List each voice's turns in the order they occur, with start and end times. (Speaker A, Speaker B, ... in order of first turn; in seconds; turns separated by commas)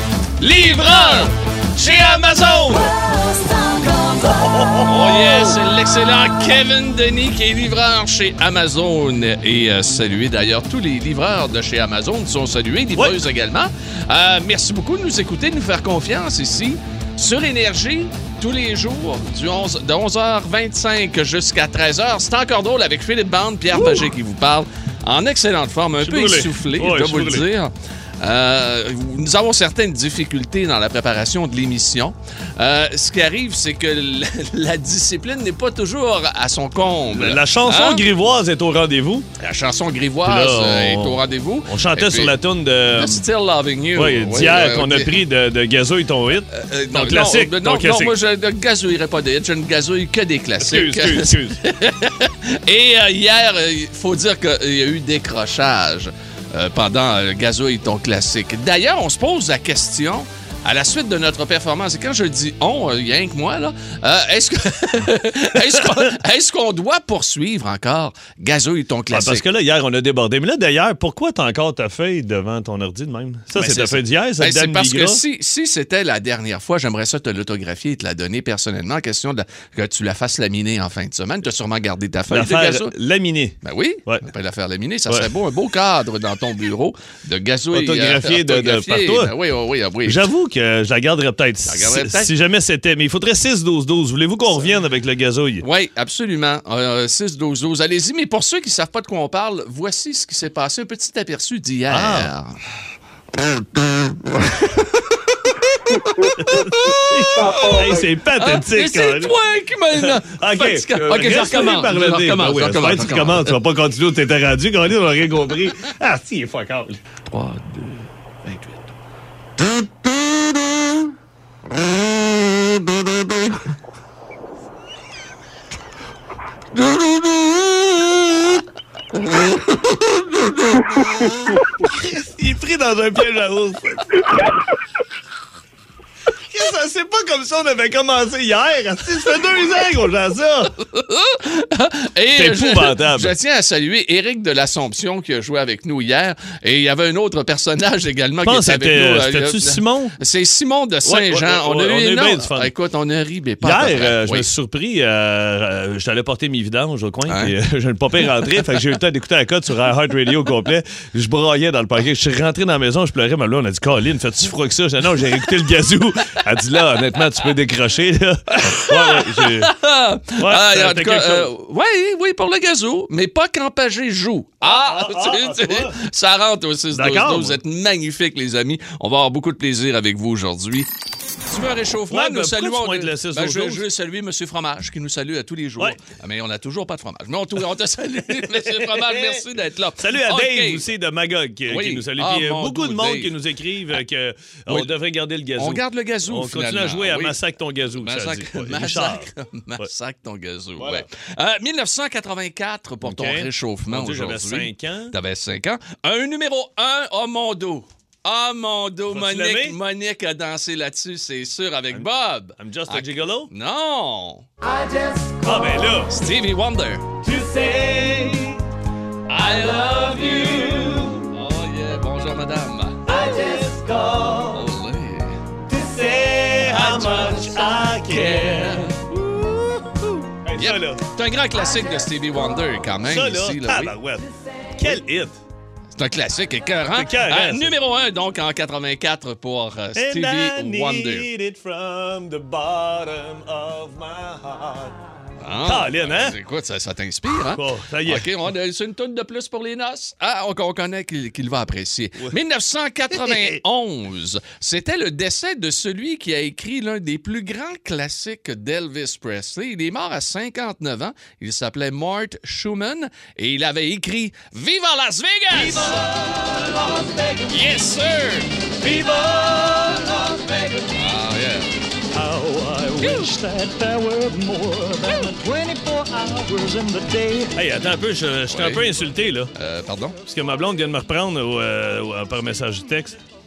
Speaker A: 0.4-3.0, Speaker B: 2.6-2.9, Speaker B: 4.0-5.6, Speaker A: 4.8-38.1, Speaker B: 12.9-13.2, Speaker B: 23.7-24.1, Speaker B: 26.0-27.5, Speaker B: 37.1-39.3, Speaker A: 39.4-42.4, Speaker B: 40.2-43.2, Speaker A: 42.9-45.2, Speaker B: 44.0-48.2, Speaker A: 46.5-69.4, Speaker B: 50.6-51.6, Speaker B: 69.1-75.2, Speaker A: 73.5-82.9, Speaker B: 82.3-83.5, Speaker A: 83.6-90.3, Speaker B: 87.7-89.3, Speaker B: 90.0-95.7, Speaker A: 91.7-92.3, Speaker A: 95.6-102.5, Speaker B: 101.9-102.3, Speaker A: 104.4-104.9, Speaker B: 106.2-109.3, Speaker A: 106.5-113.6, Speaker B: 109.9-117.0, Speaker A: 117.3-118.8, Speaker B: 131.8-134.2, Speaker B: 136.5-140.8, Speaker A: 140.9-154.5, Speaker B: 142.3-143.3, Speaker B: 148.4-150.2, Speaker B: 151.1-152.7, Speaker B: 153.6-169.7, Speaker A: 157.3-157.5, Speaker A: 168.5-180.9, Speaker B: 170.4-171.5, Speaker B: 174.6-176.0, Speaker B: 176.9-177.6, Speaker A: 181.5-190.9, Speaker B: 182.1-183.8, Speaker B: 188.4-189.4, Speaker B: 190.0-199.9, Speaker A: 191.7-193.3, Speaker A: 195.6-197.4, Speaker A: 198.0-214.5, Speaker B: 200.8-201.1, Speaker B: 203.0-205.2, Speaker B: 209.1-209.8, Speaker B: 211.9-213.5, Speaker C: 214.7-216.0, Speaker B: 215.4-216.2, Speaker A: 216.1-217.1, Speaker B: 217.2-218.6, Speaker A: 219.3-223.1, Speaker B: 219.4-221.3, Speaker B: 223.1-224.6, Speaker A: 224.5-225.4, Speaker B: 225.7-231.1, Speaker A: 226.6-228.9, Speaker A: 230.6-234.0, Speaker B: 233.0-235.4, Speaker A: 235.9-241.3, Speaker B: 236.9-237.7, Speaker B: 239.9-245.0, Speaker A: 245.4-266.0, Speaker B: 245.6-246.4, Speaker B: 247.5-248.3, Speaker B: 253.1-253.6, Speaker B: 265.5-267.5, Speaker C: 266.4-267.0, Speaker A: 267.5-268.5, Speaker B: 268.8-270.8, Speaker A: 270.9-271.7, Speaker B: 272.1-276.1, Speaker A: 273.0-273.3, Speaker C: 273.2-274.4, Speaker C: 275.2-277.5, Speaker B: 277.5-279.5, Speaker A: 278.5-278.9, Speaker A: 279.6-280.2, Speaker B: 280.3-283.2